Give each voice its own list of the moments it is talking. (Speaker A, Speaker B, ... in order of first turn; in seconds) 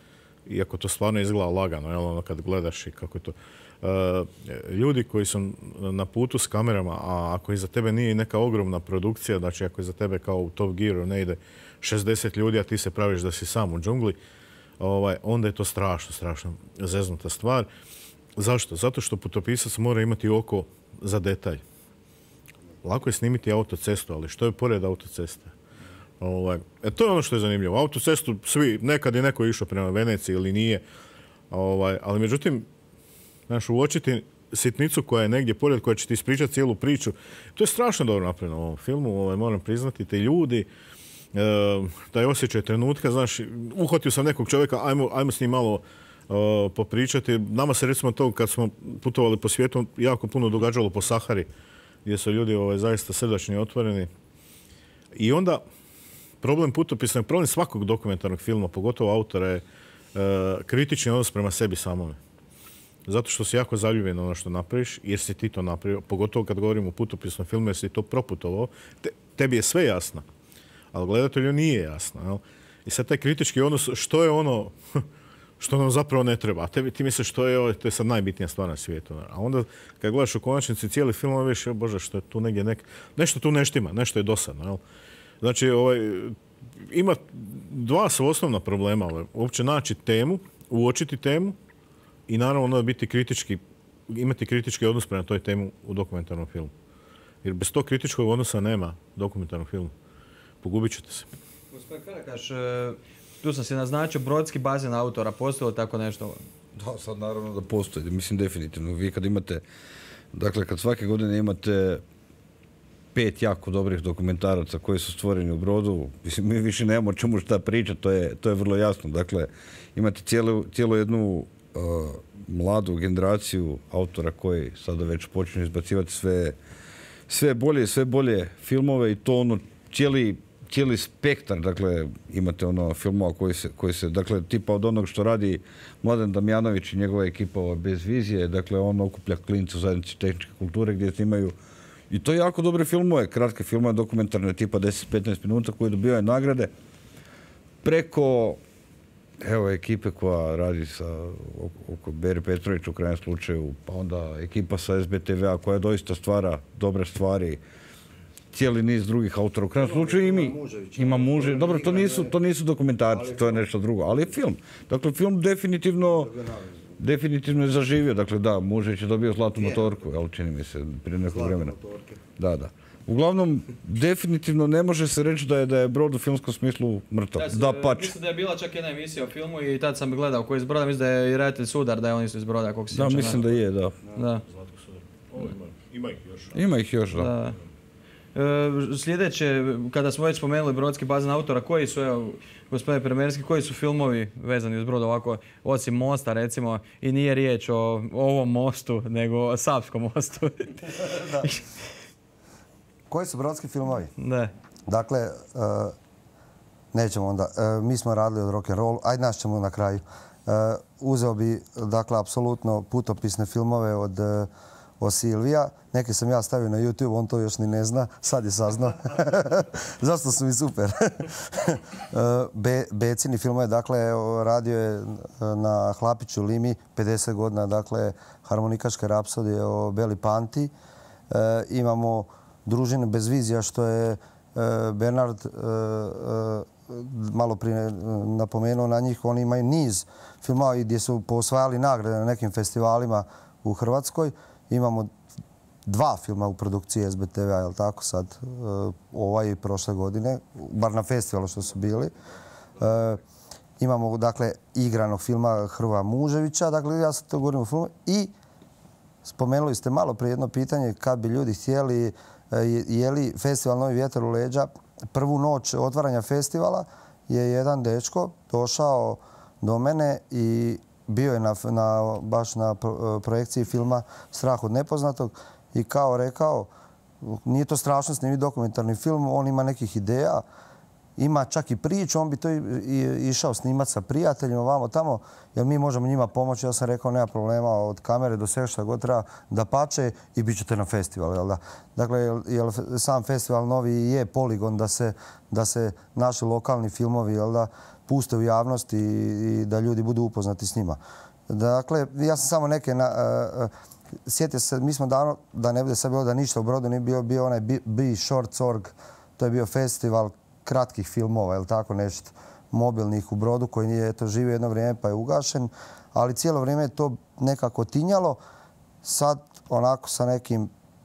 Speaker A: 0.5-14.2, 14.8-17.7, 18.4-21.6, 22.8-25.5, 26.2-30.8, 31.5-32.7, 33.5-40.7, 41.3-51.5, 52.0-54.1, 55.1-55.6, 56.4-59.6, 60.1-62.2, 63.1-70.2, 70.9-75.0, 75.6-84.8, 85.4-86.4, 86.9-91.6, 92.3-96.7, 97.4-99.9, 100.6-101.3, 184.5-186.6
Speaker B: 101.7-106.4, 177.4-183.4, 184.2-184.4, 187.2-187.6, 188.3-201.6, 204.2-204.5
Speaker C: 106.8-109.6, 110.3-112.0, 113.2-126.6, 127.3-141.6, 142.1-146.7, 147.8-148.6, 149.4-157.6, 158.5-166.3, 167.0-171.8, 172.4-178.1, 182.9-184.0, 186.5-187.3
Speaker D: 159.8-162.3, 163.1-163.6, 166.1-166.9, 171.3-172.2, 203.1-204.1, 204.9-205.9, 206.9-230.7, 231.3-245.1, 245.9-252.1, 252.8-253.2, 253.8-258.3, 259.2-276.7, 277.2-280.4, 281.2-303.7, 304.3-318.4, 319.0-320.7